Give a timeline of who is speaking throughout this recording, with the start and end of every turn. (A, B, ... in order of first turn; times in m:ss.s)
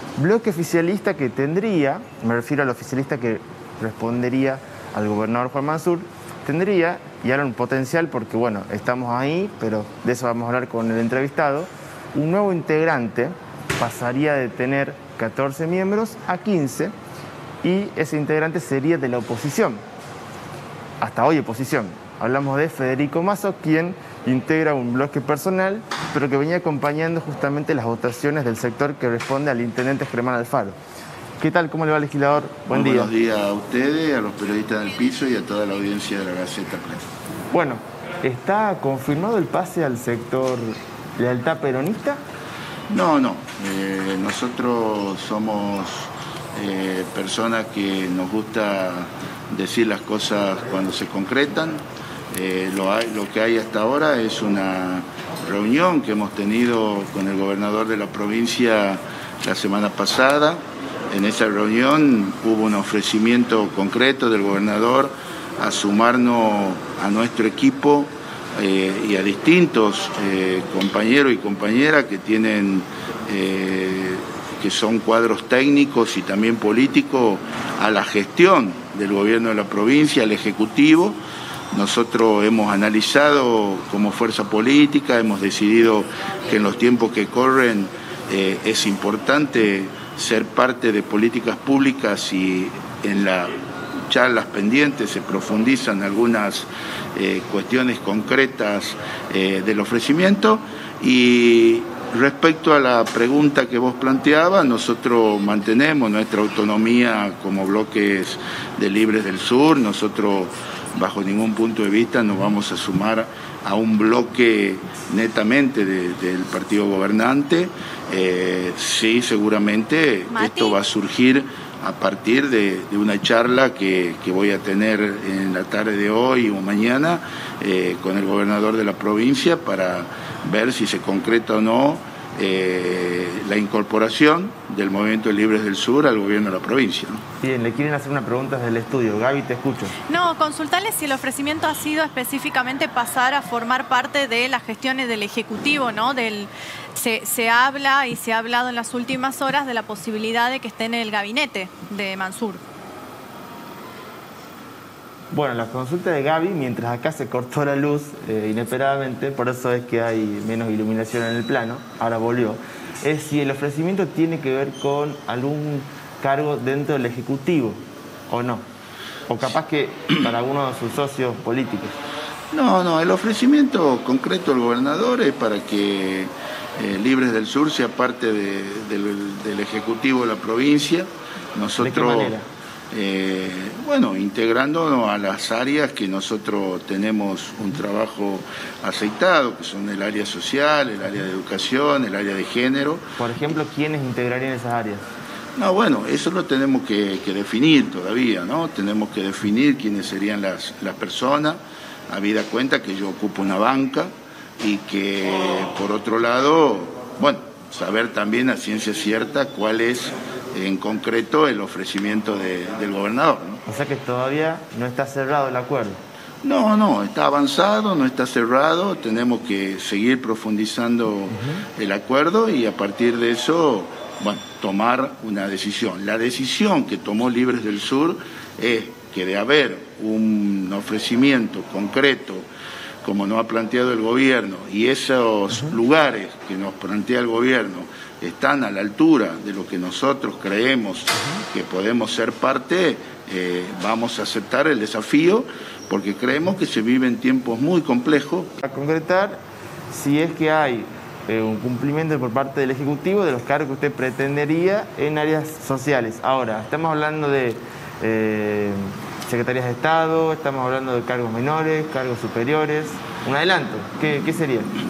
0:00.2-0:16.9 A
0:17.6-0:19.8 A
0:21.0-0:30.8 A
0:31.4-0:33.1 A
0:32.7-0:37.0 B
0:37.5-0:42.2 A
0:42.9-1:21.2 B
1:21.7-2:17.2 B
2:00.3-2:00.8 C
2:17.4-2:19.9 A
2:20.1-2:32.6 C
2:35.3-2:48.6 A
2:49.3-2:52.0 A
2:52.5-3:02.4 B
3:01.8-3:02.4 A
3:02.9-3:13.0 B
3:13.2-3:15.0 A
3:15.6-3:33.6 B
3:33.7-3:36.0 A
3:36.4-3:52.5 B
3:53.0-4:08.5 B
4:08.6-4:09.4 A
4:09.9-4:24.7 A